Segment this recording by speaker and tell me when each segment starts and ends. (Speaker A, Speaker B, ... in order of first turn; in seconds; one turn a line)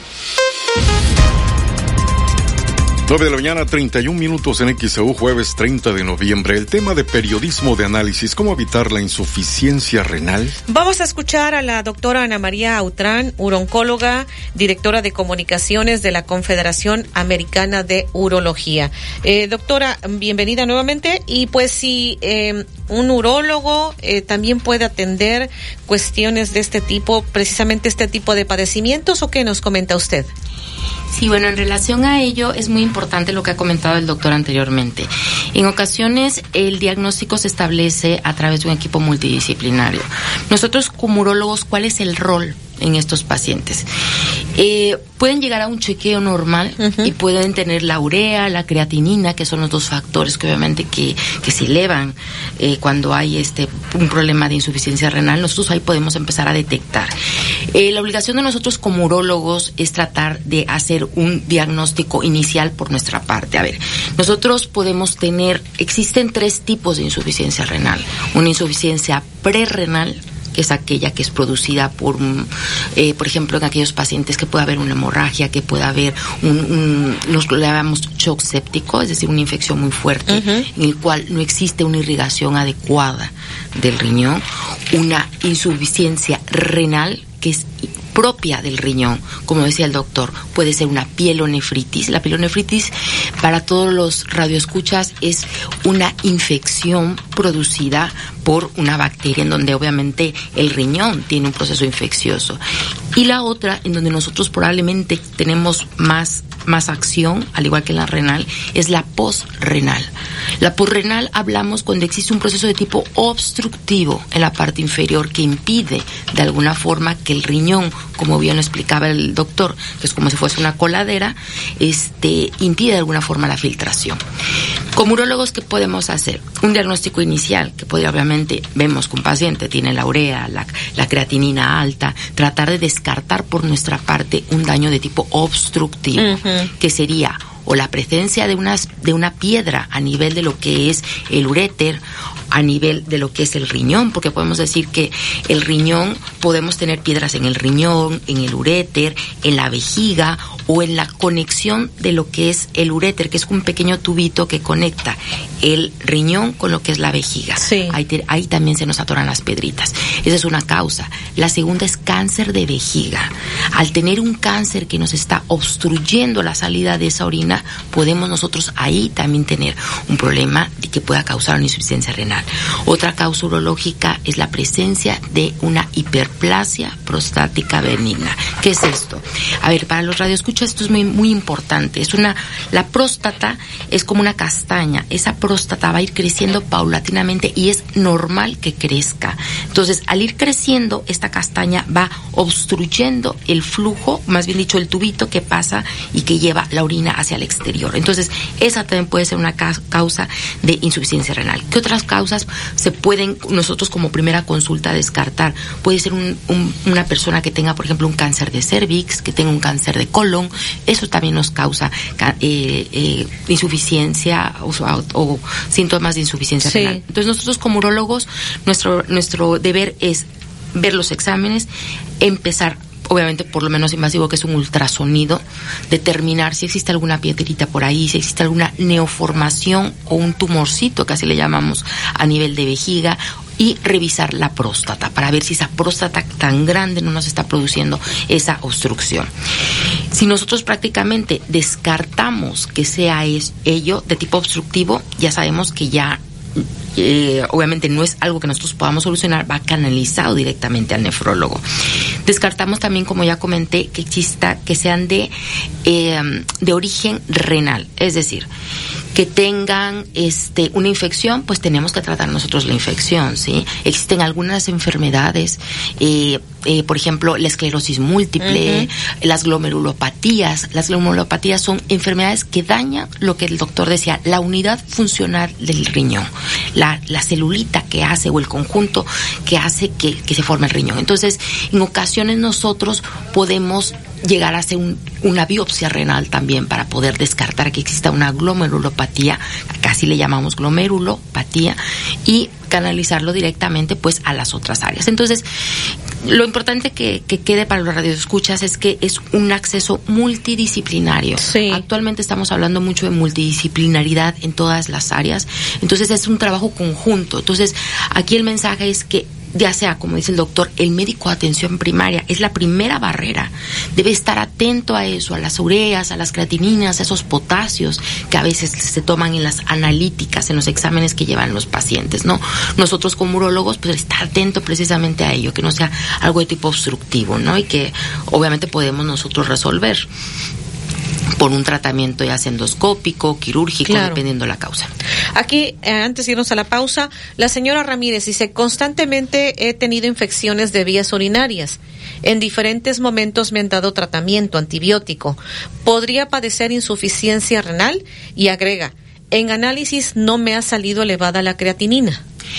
Speaker A: 3.1-10.6
Speaker B: 10.7-30.3
Speaker C: 31.1-43.9
Speaker C: 44.6-57.1
Speaker B: 46.8-47.1
Speaker C: 57.7-102.6
Speaker B: 80.3-80.7
Speaker C: 103.1-124.2
Speaker C: 125.0-221.7
Speaker B: 136.2-136.7
Speaker B: 157.6-157.9
Speaker B: 216.6-217.0
Speaker C: 222.2-239.3
Speaker C: 240.1-251.7
Speaker C: 252.2-255.3
Speaker C: 255.8-258.5
Speaker C: 259.1-295.4
Speaker B: 268.4-268.9
Speaker C: 296.2-330.1
Speaker B: 301.4-301.8
Speaker C: 331.4-334.9
Speaker B: 333.9-334.2
Speaker B: 335.4-352.2